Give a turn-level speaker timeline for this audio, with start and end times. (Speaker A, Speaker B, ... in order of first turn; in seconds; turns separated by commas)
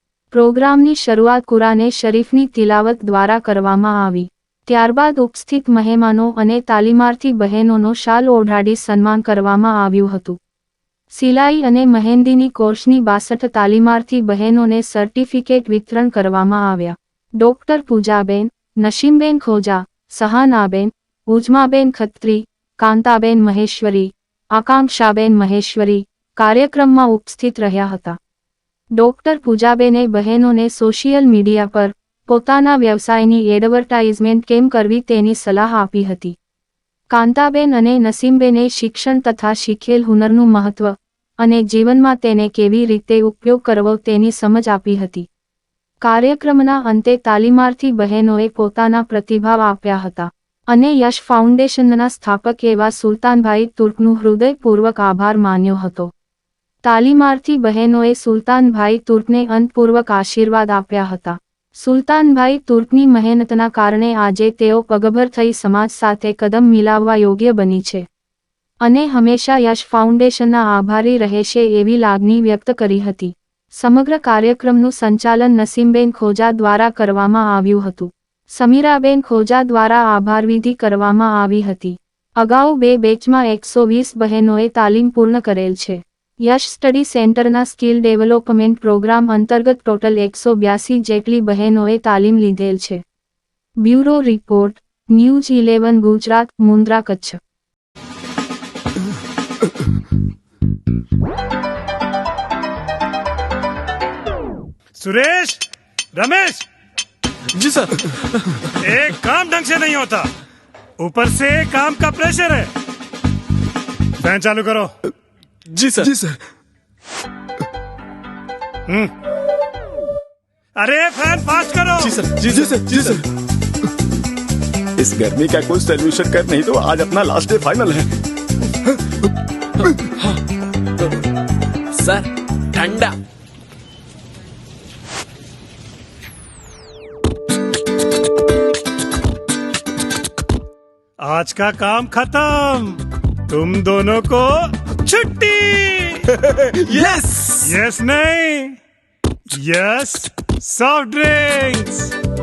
Speaker A: 0.3-10.4, Speaker A: 11.1-28.2, Speaker A: 28.9-36.4, Speaker A: 37.1-45.3, Speaker A: 46.0-56.1, Speaker A: 56.8-68.0, Speaker A: 68.8-93.0, Speaker A: 93.8-97.4, Speaker B: 105.0-105.6, Speaker B: 106.2-106.7, Speaker C: 107.5-108.7, Speaker B: 108.7-110.3, Speaker B: 111.0-112.7, Speaker B: 114.2-114.9, Speaker C: 115.7-116.2, Speaker B: 118.9-119.1, Speaker B: 120.8-122.2, Speaker C: 122.0-123.2, Speaker D: 125.0-128.1, Speaker C: 131.9-133.2, Speaker B: 141.2-146.3, Speaker C: 146.3-147.8, Speaker B: 147.6-148.8, Speaker B: 149.5-152.2